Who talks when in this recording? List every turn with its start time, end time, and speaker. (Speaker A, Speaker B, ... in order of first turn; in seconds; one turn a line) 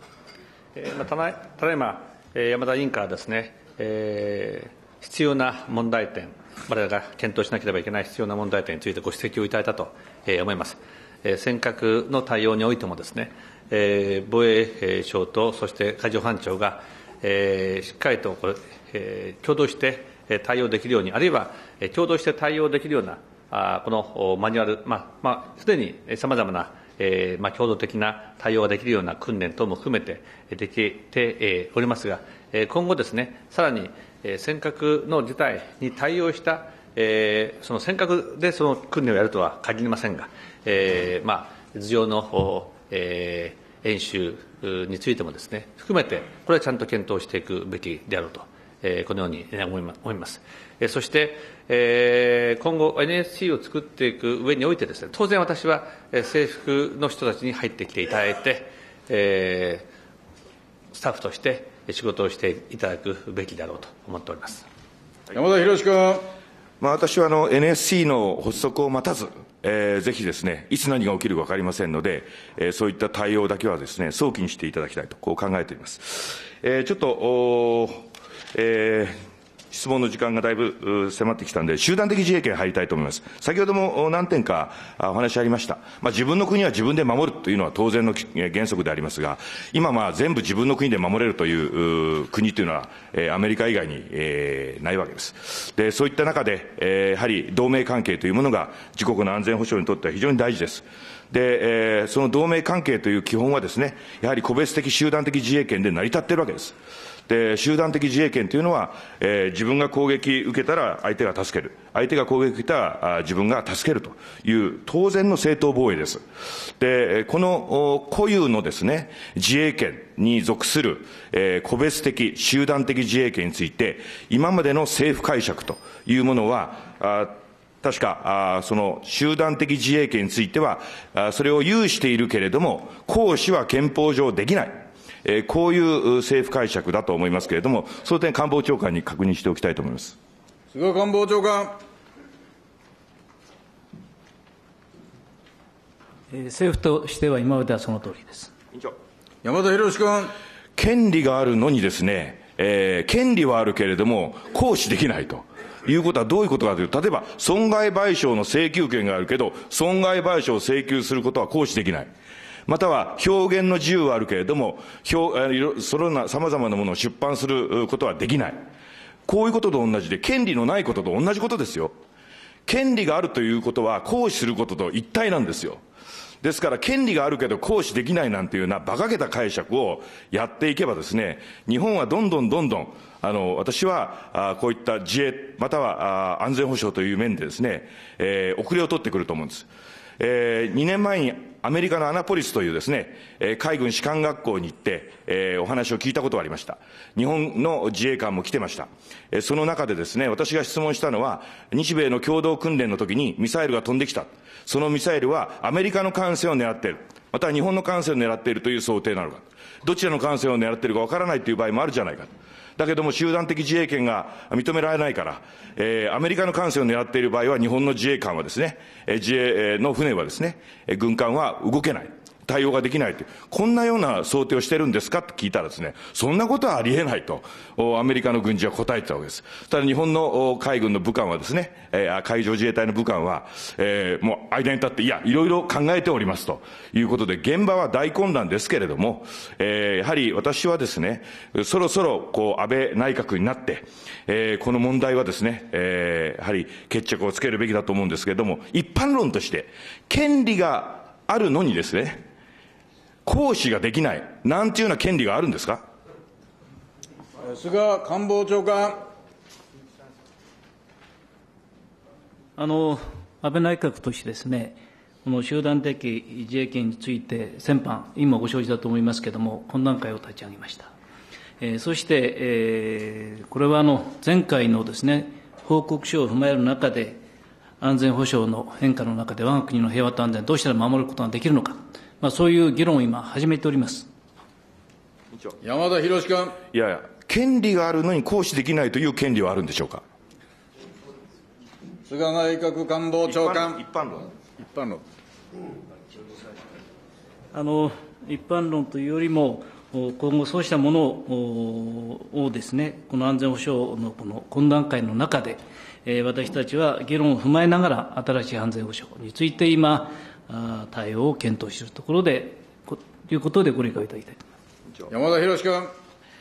Speaker A: 0.8-59.9
Speaker A: 60.9-64.7
Speaker B: 65.3-66.2
Speaker C: 66.8-79.2
Speaker C: 79.7-106.8
Speaker C: 107.3-116.2
Speaker C: 116.8-140.2
Speaker B: 140.7-141.8
Speaker D: 146.3-148.5
Speaker B: 149.4-150.3
Speaker C: 150.8-162.1
Speaker C: 162.7-168.6
Speaker C: 169.3-172.0
Speaker C: 172.7-175.8
Speaker C: 176.4-189.7
Speaker C: 190.2-252.2
Speaker C: 253.2-255.8
Speaker B: 257.4-259.1
Speaker D: 262.6-270.9
Speaker D: 271.6-277.2
Speaker D: 277.8-284.1
Speaker B: 285.6-286.6
Speaker C: 286.7-290.0
Speaker B: 292.1-293.8
Speaker C: 293.3-294.3
Speaker B: 294.6-295.0
Speaker D: 297.5-314.4
Speaker B: 315.1-315.9